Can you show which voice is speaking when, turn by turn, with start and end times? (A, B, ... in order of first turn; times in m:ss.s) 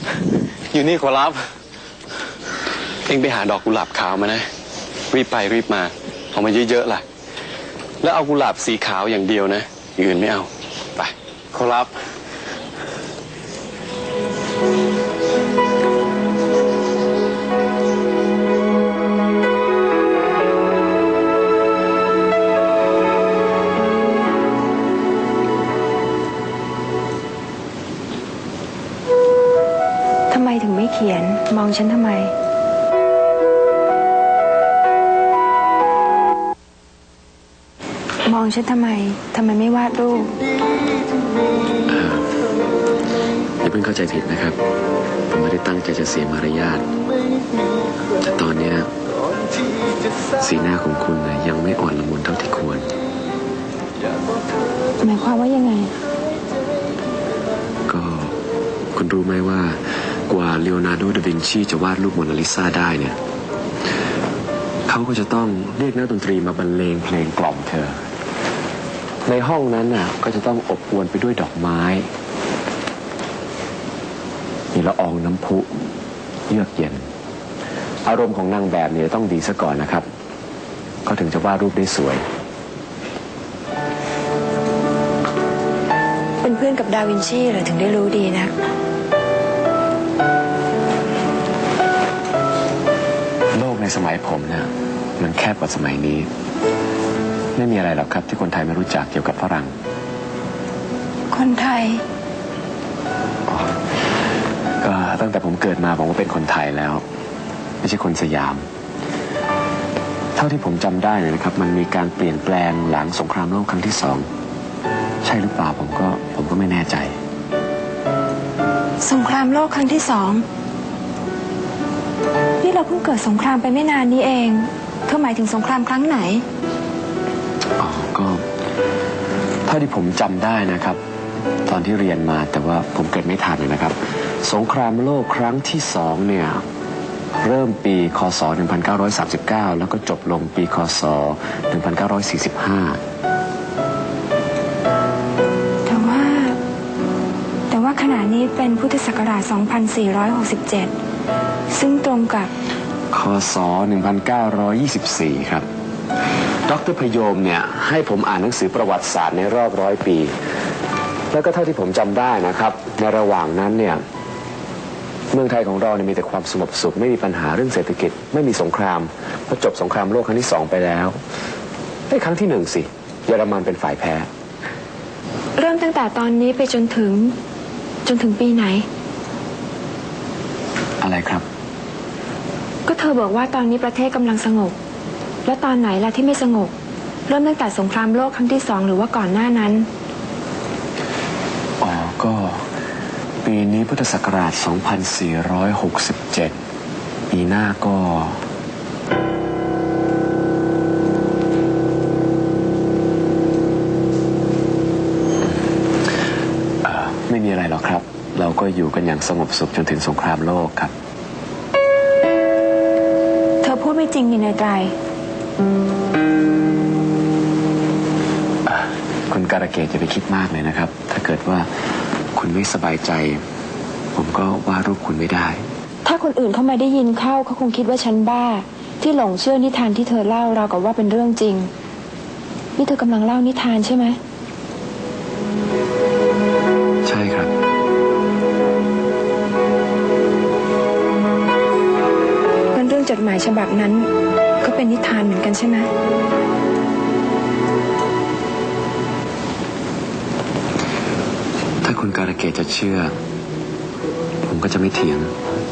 0:00.7-0:01.5 A
0:03.1-0:04.5 A
0:05.1-0:07.0 A
0:08.0-0:11.9 A
0:30.3-0:32.3 B
0:38.2-0:40.4 B
0:41.9-0:42.4 C
0:43.6-0:44.6 C
0:45.3-0:46.9 C
0:48.1-0:48.9 C
0:50.3-0:52.9 C
0:55.0-0:55.9 B
0:57.9-0:58.4 C
0:58.9-1:03.2 C
1:04.9-1:08.0 C
1:09.2-1:12.1 C
1:14.7-1:15.7 C
1:16.5-1:17.0 C
1:18.0-1:20.0 C
1:21.0-1:22.2 C
1:26.4-1:28.5 B
1:33.5-1:36.3 C
1:37.5-1:39.7 C
1:41.3-1:42.0 B
1:43.5-1:43.8 C
1:44.8-1:47.0 C
1:47.8-1:48.6 C
1:50.4-1:54.3 C
1:55.2-1:57.2 C
1:59.0-2:00.4 B
2:02.6-2:06.4 B
2:07.8-2:08.5 C
2:09.6-2:11.0 C
2:11.6-2:16.6 C
2:17.4-2:23.0 C
2:25.8-2:26.6 B
2:27.7-2:30.9 B
2:31.7-2:32.5 B
2:33.1-2:35.7 C
2:36.7-2:40.3 C
2:41.3-2:44.0 C
2:45.3-2:51.2 C
2:52.1-2:54.3 C
2:55.6-2:57.4 B
2:58.0-2:58.8 B
3:01.0-3:01.4 C
3:02.8-3:04.8 B
3:05.4-3:06.7 B
3:07.3-3:09.9 B
3:11.8-3:12.7 C
3:13.4-3:16.6 C
3:17.3-3:18.4 C
3:26.8-3:30.9 C
3:33.6-3:34.9 B
3:38.6-3:43.4 C
3:44.1-3:45.6 C
3:46.0-3:51.7 B
3:52.8-3:54.2 B
3:57.0-3:57.5 C
4:02.7-4:05.9 B
4:11.8-4:13.1 C
4:14.4-4:15.3 C